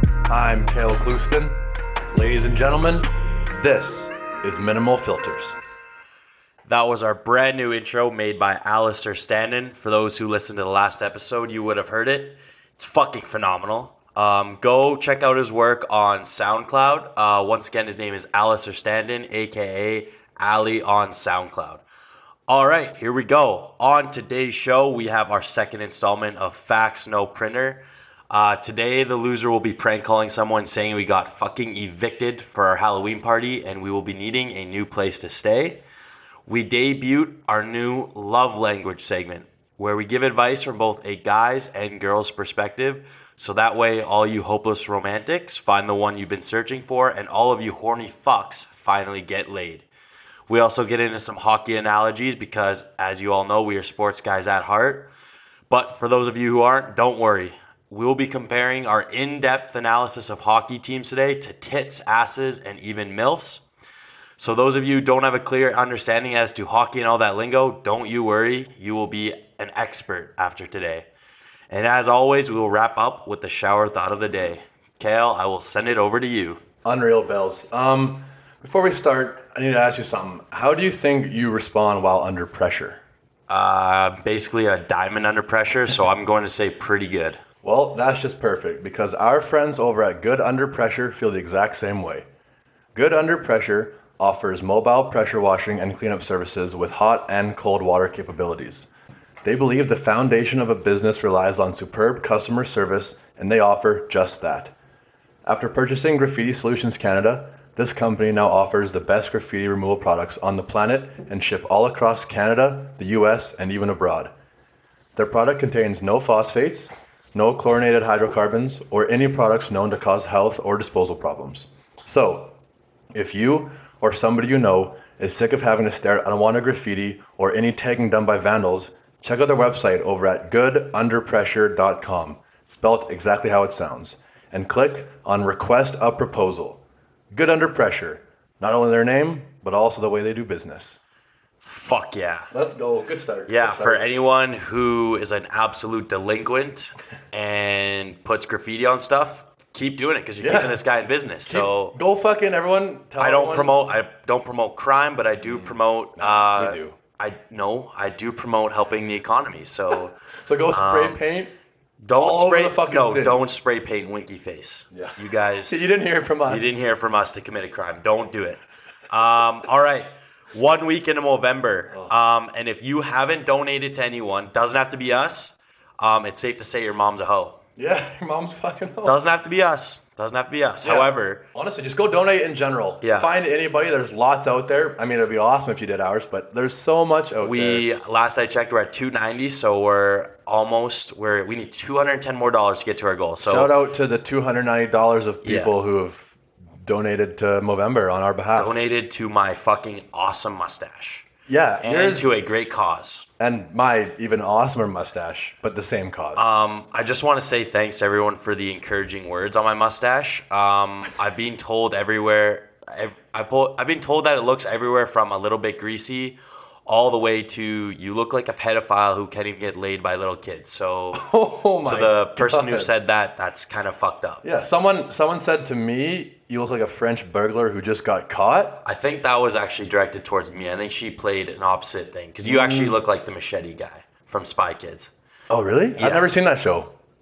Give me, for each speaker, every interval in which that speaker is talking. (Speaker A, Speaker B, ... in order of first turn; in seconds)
Speaker A: 0.3-5.6, 76.8-83.0, 87.6-92.3, 92.9-98.9, 99.4-104.7, 105.5-114.3, 115.2-122.6, 123.1-141.0, 142.5-144.1, 150.4-150.8, 151.4-153.8, 155.4-157.0, 160.4-161.5, 162.2-163.4, 164.9-166.8, 177.8-179.2, 180.8-187.9, 193.4-198.8, 201.5-202.3, 203.4-206.5, 221.2-222.9, 224.4-228.8, 232.4-233.0, 235.5-236.9
Speaker B: 6.7-21.8, 22.5-35.8, 36.5-49.9, 50.5-55.1, 55.7-63.6, 64.4-71.1, 71.7-76.6, 83.5-87.4, 141.6-142.5, 143.5-152.0, 153.2-160.2, 160.7-161.2, 162.0-165.9, 166.5-177.6, 179.1-181.5, 183.0-183.3, 187.4-193.7, 195.4-195.7, 198.6-201.3, 201.8-203.3, 206.4-221.3, 221.8-224.4, 228.8-235.1, 236.0-236.3